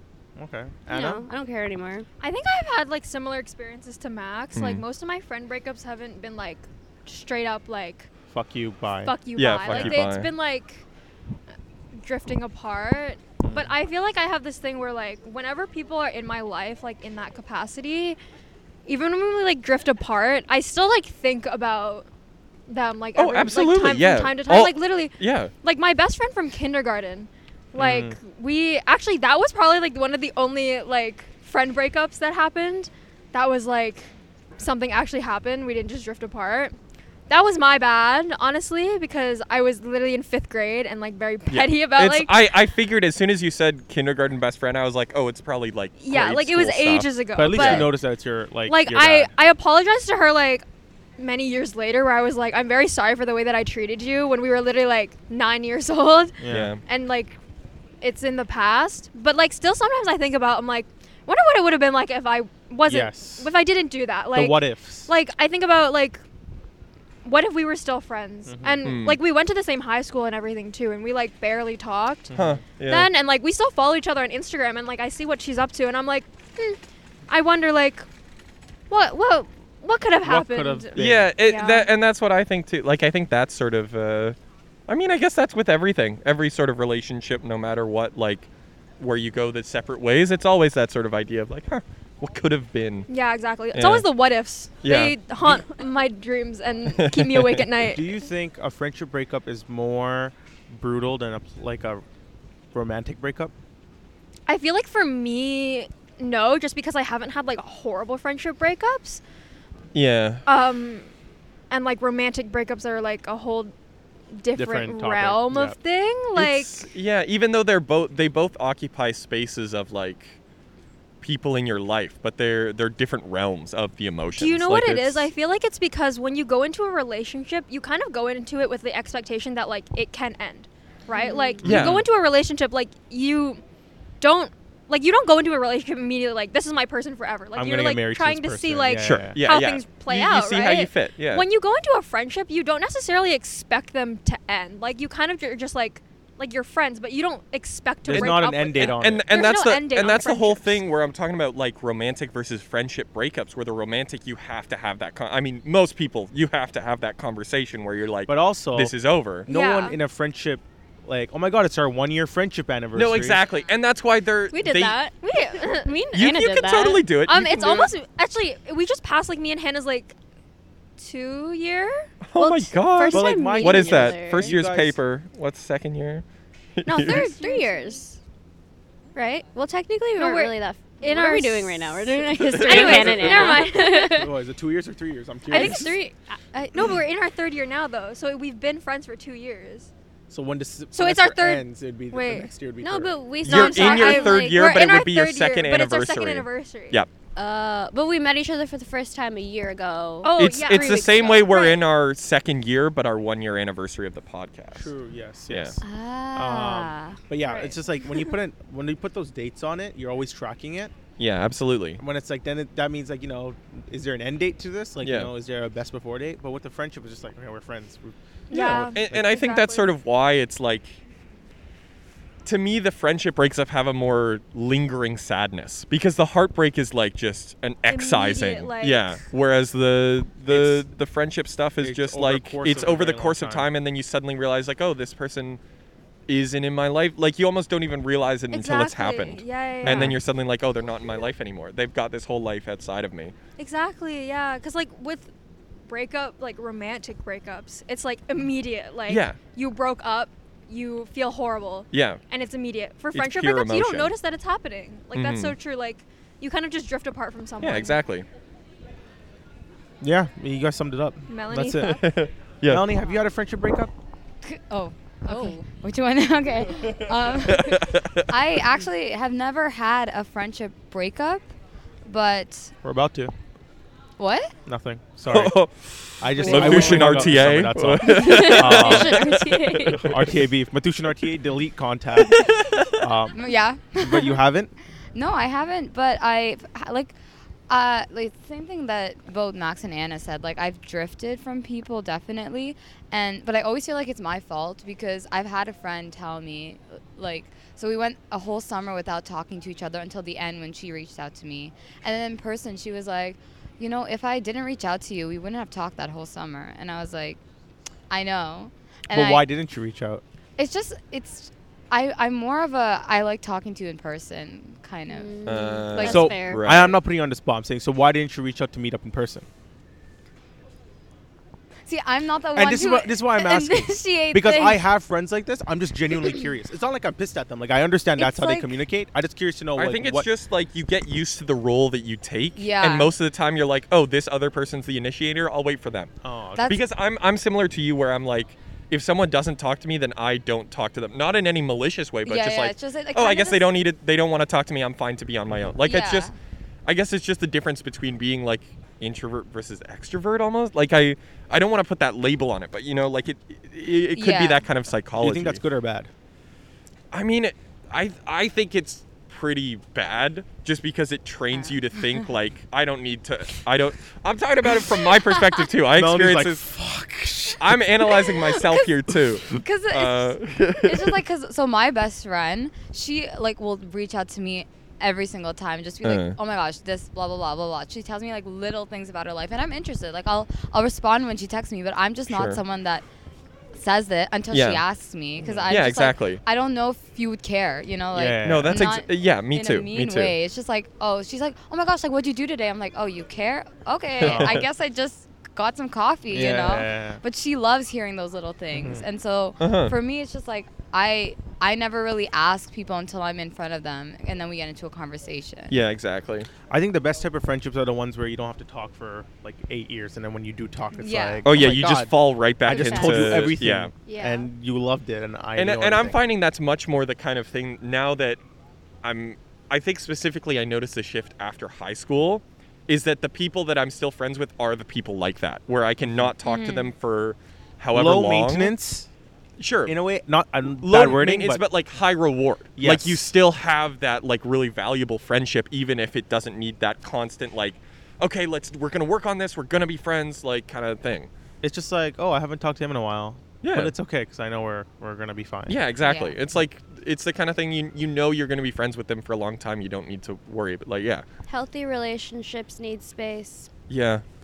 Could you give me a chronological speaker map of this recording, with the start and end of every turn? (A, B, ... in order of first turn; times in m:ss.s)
0:00.4-0:01.3 A
0:00.9-0:02.1 B
0:02.2-0:08.1 C
0:04.6-0:04.8 D
0:08.3-0:09.1 A
0:09.0-0:10.8 C
0:09.4-0:10.3 D
0:09.7-0:10.0 A
0:11.9-0:18.2 C
0:13.4-0:13.7 A
0:18.9-0:22.1 C
0:22.7-0:36.8 C
0:23.2-0:25.5 D
0:27.8-0:28.2 A
0:37.3-0:42.4 C
0:41.5-0:47.9 D
0:46.0-0:47.9 C
0:47.4-0:49.3 A
0:48.7-0:50.6 C
0:51.2-0:57.4 C
0:56.4-0:56.7 A
0:56.5-0:56.8 D
0:58.0-1:06.2 C
1:02.9-1:03.5 A
1:04.3-1:05.1 A
1:07.2-1:18.1 C
1:08.5-1:08.9 A
1:08.8-1:09.2 D
1:12.3-1:12.6 A
1:12.4-1:13.1 D
1:18.9-1:21.9 C
1:20.2-1:21.3 A
1:21.0-1:24.4 D
1:24.9-1:33.1 D
1:33.1-1:38.2 C
1:33.7-1:34.1 D
1:34.8-1:35.7 D
1:36.9-1:37.7 D
1:37.9-1:42.0 A
1:42.7-1:43.5 A
1:44.5-1:49.2 C
1:49.9-1:50.4 D
1:50.5-1:51.1 C
1:51.7-1:53.7 C
1:54.3-1:56.9 C
1:54.6-1:55.8 A
1:56.4-2:00.4 D
2:01.2-2:05.3 D
2:04.4-2:13.6 C
2:11.1-2:11.6 B
2:11.6-2:12.0 A
2:11.6-2:12.0 D
2:14.2-2:30.8 C
2:17.6-2:19.4 A
2:19.0-2:21.5 D
2:28.0-2:29.3 A
2:28.1-2:39.5 D
2:38.3-2:38.9 A
2:39.5-2:43.4 A
2:39.5-2:40.0 C
2:43.0-2:45.0 D
2:44.5-2:47.1 B
2:45.2-2:46.1 C
2:46.1-2:47.9 D
2:47.3-2:50.2 C
2:51.0-2:52.0 C
2:52.2-2:56.2 D
2:52.4-2:54.5 B
2:53.1-2:55.0 A
2:56.8-2:57.2 D
2:56.9-2:57.8 C
2:57.0-2:58.2 B
2:59.2-3:04.3 B
3:00.2-3:04.2 C
3:02.4-3:03.6 D
3:04.0-3:06.0 A
3:05.5-3:06.1 B
3:05.5-3:09.9 C
3:10.3-3:13.6 A
3:10.9-3:12.5 C
3:12.8-3:14.8 B
3:13.4-3:17.1 D
3:13.5-3:17.0 C
3:17.4-3:21.4 B
3:20.2-3:21.8 C
3:20.4-3:24.9 D
3:24.8-3:25.8 A
3:25.5-3:25.8 D
3:25.8-3:27.2 B
3:26.3-3:30.9 A
3:31.2-3:32.0 D
3:32.0-3:39.2 A
3:35.0-3:35.3 D
3:38.5-3:39.9 C
3:38.5-3:41.0 D
3:42.4-3:55.6 D
3:47.9-3:49.2 C
3:50.5-3:50.8 A
3:51.8-3:53.7 A
3:56.3-4:03.4 D
3:58.5-4:00.2 C
3:59.8-4:00.2 A
4:03.6-4:05.3 C
4:05.9-4:18.0 C
4:09.1-4:09.4 D
4:11.9-4:12.2 D
4:13.1-4:14.1 D
4:15.1-4:15.6 D
4:17.6-4:18.3 D
4:20.0-4:22.0 A
4:21.3-4:22.0 C
4:21.8-4:22.9 D
4:22.7-4:23.9 A
4:24.4-4:31.5 E
4:25.3-4:25.6 C
4:27.5-4:28.1 D
4:32.0-4:32.7 E
4:32.8-4:33.3 A
4:34.2-4:34.5 E
4:34.7-4:35.6 A
4:35.3-4:40.2 D
4:36.2-4:39.4 A
4:36.4-4:37.2 E
4:38.0-4:40.1 B
4:39.9-4:43.4 A
4:42.2-4:43.0 D
4:43.3-4:44.4 E
4:44.0-4:44.7 A
4:45.2-4:47.2 E
4:47.7-5:07.4 E
5:08.1-5:09.5 E
5:09.1-5:10.2 A
5:10.6-5:15.4 E
5:15.1-5:16.9 B
5:15.4-5:16.9 D
5:16.0-5:19.5 A
5:21.9-5:24.8 E
5:22.6-5:30.3 A
5:28.2-5:28.7 E
5:29.8-5:36.1 D
5:32.6-5:33.1 E
5:36.2-5:36.7 A
5:36.6-5:36.8 E
5:36.7-5:46.3 D
5:42.2-5:43.7 E
5:45.8-5:46.3 E
5:46.8-5:55.6 D
5:54.2-5:54.6 E
5:55.2-5:56.1 A
5:57.1-6:06.7 D
6:01.5-6:02.2 E
6:05.9-6:07.7 A
6:07.6-6:11.2 D
6:08.2-6:08.8 E
6:09.5-6:23.0 E
6:16.0-6:16.4 D
6:22.3-6:22.6 D
6:23.8-6:45.8 E
6:24.5-6:24.8 D
6:25.4-6:25.8 A
6:25.7-6:26.4 D
6:28.1-6:28.8 A
6:28.4-6:30.4 D
6:34.2-6:34.6 D
6:34.2-6:34.6 A
6:36.3-6:37.2 A
6:38.7-6:39.0 A
6:39.6-6:39.9 D
6:45.7-6:46.5 D
6:46.7-6:56.2 A
6:50.9-6:51.4 E
6:51.4-6:53.9 D
6:52.6-6:54.5 B
6:55.6-6:58.4 D
6:59.0-7:08.7 D
7:06.0-7:06.3 A
7:06.4-7:06.9 E
7:07.9-7:09.1 A
7:09.6-7:10.0 D
7:09.9-7:11.6 A
7:10.7-7:21.3 D
7:12.8-7:13.2 A
7:21.6-7:25.8 A
7:23.6-7:23.9 D
7:25.7-7:31.2 D
7:26.0-7:26.4 E
7:31.5-7:33.7 B
7:33.9-7:34.3 D